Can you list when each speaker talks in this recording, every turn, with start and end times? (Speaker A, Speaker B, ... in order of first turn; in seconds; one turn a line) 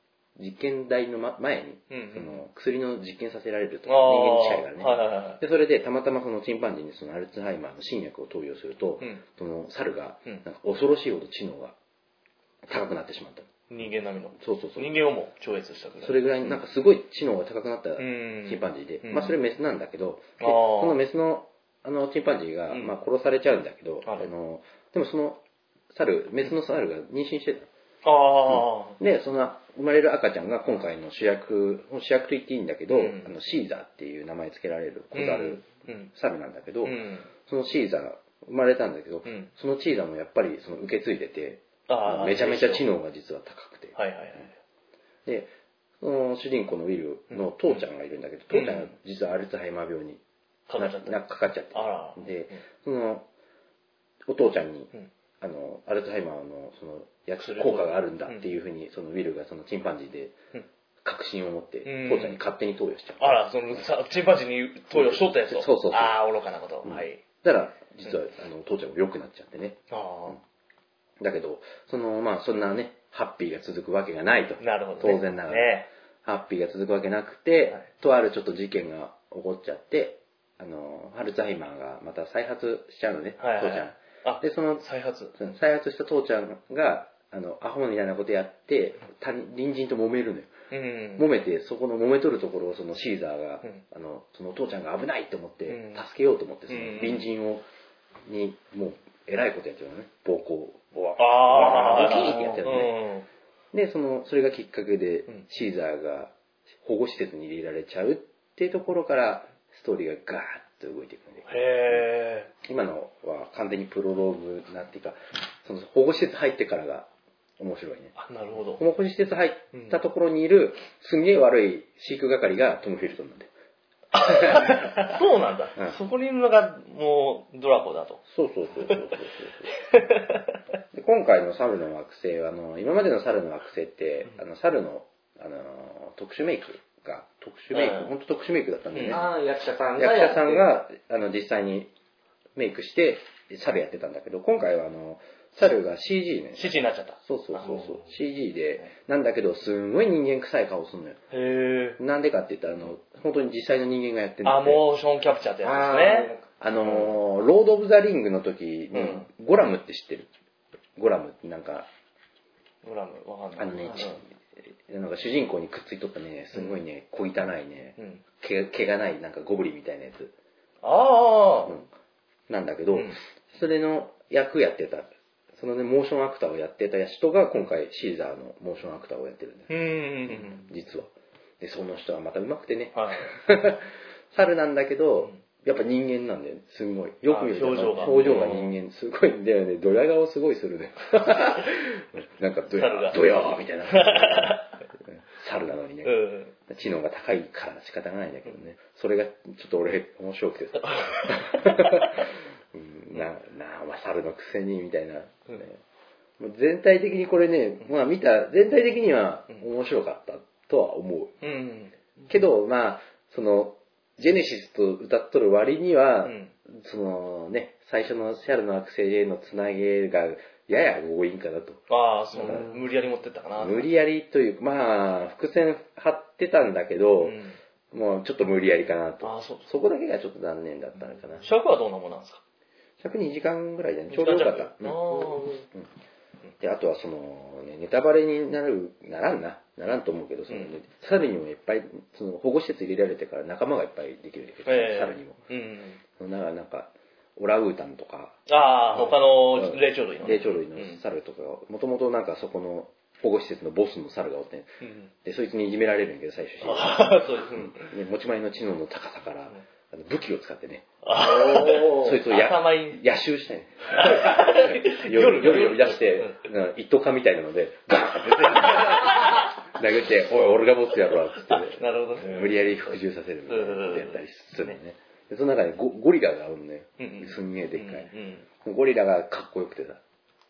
Speaker A: 0.4-11.8
Speaker B: 1.9-2.4
Speaker B: 3.9-5.4
Speaker A: 12.7-13.6
Speaker B: 13.7-16.6
Speaker A: 14.4-14.9
Speaker A: 16.0-27.7
Speaker B: 18.0-19.4
Speaker B: 20.4-21.0
Speaker B: 28.0-29.0
Speaker A: 28.5-44.0
Speaker B: 32.9-33.3
Speaker B: 35.1-36.1
Speaker B: 36.8-37.3
Speaker B: 39.3-39.5
Speaker B: 41.9-42.9
Speaker B: 44.0-44.5
Speaker A: 45.3-50.2
Speaker B: 47.3-47.8
Speaker B: 48.5-48.9
Speaker B: 50.7-51.2
Speaker A: 50.8-53.3
Speaker B: 51.7-52.2
Speaker A: 54.3-60.4
Speaker B: 57.4-58.5
Speaker A: 61.0-63.9
Speaker B: 61.9-62.4
Speaker B: 63.2-67.2
Speaker A: 64.9-66.2
Speaker A: 66.8-70.4
Speaker B: 69.9-70.4
Speaker A: 71.2-90.5
Speaker B: 74.6-75.9
Speaker B: 83.4-85.3
Speaker B: 90.7-91.3
Speaker A: 91.2-97.7
Speaker B: 95.7-96.0
Speaker B: 96.7-97.3
Speaker A: 98.3-102.9
Speaker B: 101.2-103.3
Speaker A: 103.7-112.1
Speaker B: 111.5-112.5
Speaker A: 112.6-118.1
Speaker B: 118.2-118.8
Speaker A: 118.8-123.5
Speaker B: 119.7-120.0
Speaker B: 124.1-128.2
Speaker A: 124.2-125.1
Speaker A: 128.3-129.7
Speaker B: 129.9-130.5
Speaker A: 130.9-139.2
Speaker B: 137.7-138.1
Speaker B: 138.9-139.2
Speaker C: 139.1-140.7
Speaker A: 140.0-141.9
Speaker A: 142.6-146.7
Speaker B: 146.6-148.0
Speaker A: 147.2-151.2
Speaker B: 151.3-152.0
Speaker A: 152.0-154.8
Speaker B: 154.4-156.3
Speaker C: 155.6-156.5
Speaker A: 156.6-160.3
Speaker B: 158.9-159.3
Speaker A: 161.0-161.9
Speaker B: 162.8-164.2
Speaker A: 163.6-164.2
Speaker A: 164.9-170.3
Speaker B: 170.8-171.8
Speaker A: 172.5-179.7
Speaker B: 172.9-173.2
Speaker B: 179.7-180.6
Speaker A: 180.3-194.6
Speaker B: 182.9-183.3
Speaker B: 187.3-188.7
Speaker B: 192.7-194.7
Speaker A: 195.3-205.8
Speaker B: 196.0-196.5
Speaker B: 200.8-202.1
Speaker A: 206.4-211.4
Speaker B: 211.4-211.9
Speaker A: 212.3-221.8
Speaker B: 216.2-216.5
Speaker B: 221.9-223.9
Speaker A: 222.4-222.7
Speaker A: 223.6-227.4
Speaker B: 227.2-227.6
Speaker A: 227.9-231.4
Speaker B: 229.2-229.7
Speaker B: 231.4-232.4
Speaker A: 233.0-235.9
Speaker B: 234.1-235.7
Speaker A: 236.6-245.4
Speaker B: 244.7-246.0
Speaker A: 246.2-248.4
Speaker B: 248.5-251.0
Speaker A: 249.0-260.9
Speaker B: 254.8-255.1
Speaker B: 256.6-257.9
Speaker B: 261.0-263.0
Speaker C: 261.2-262.2
Speaker A: 261.8-278.1
Speaker B: 263.9-266.4
Speaker B: 268.7-269.2
Speaker B: 271.5-272.6
Speaker B: 273.5-274.7
Speaker B: 277.0-278.4
Speaker A: 278.6-280.0